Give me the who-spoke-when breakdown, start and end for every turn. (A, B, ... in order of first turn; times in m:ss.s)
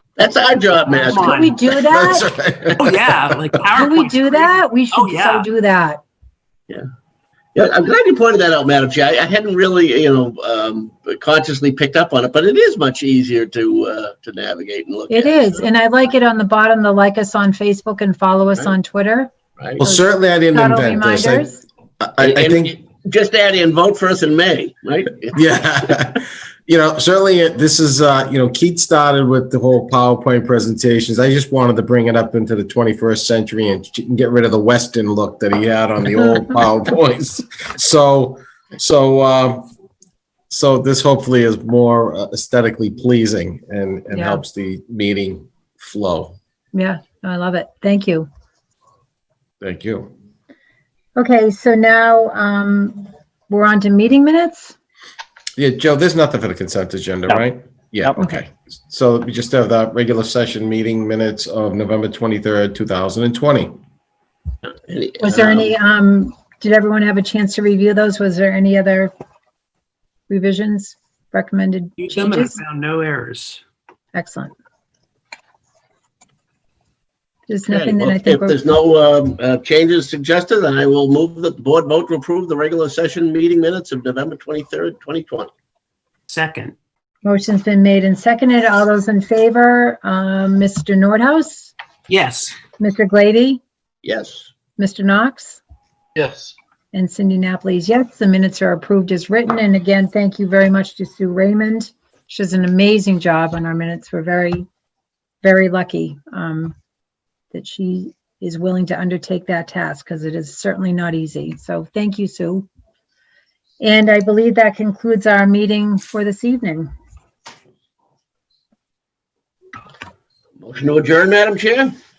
0:00.2-0:01.6 A
0:00.9-0:02.3 B
0:01.1-0:01.5 C
0:01.8-0:03.2 D
0:02.8-0:05.5 C
0:03.8-0:06.0 B
0:07.6-0:15.7 A
0:15.1-0:21.6 B
0:19.8-0:22.8 D
0:22.2-0:25.4 A
0:25.3-0:39.7 D
0:40.5-0:46.4 D
0:44.1-0:44.4 B
0:46.7-0:48.3 B
0:49.6-0:50.1 D
0:51.2-0:54.8 B
0:55.6-1:03.8 D
0:58.2-0:58.4 B
1:04.7-1:05.8 A
1:05.2-1:09.1 B
1:10.3-1:12.6 B
1:12.0-1:13.6 C
1:14.1-1:14.5 B
1:17.5-1:18.6 B
1:17.7-1:25.5 A
1:26.3-1:26.8 C
1:27.2-1:31.7 B
1:32.1-1:32.6 C
1:32.8-1:33.6 B
1:34.0-1:34.5 A
1:34.8-1:35.6 B
1:36.9-1:44.7 B
1:45.4-1:46.8 B
1:47.5-1:52.7 B
1:53.8-1:56.9 B
2:00.6-2:01.9 A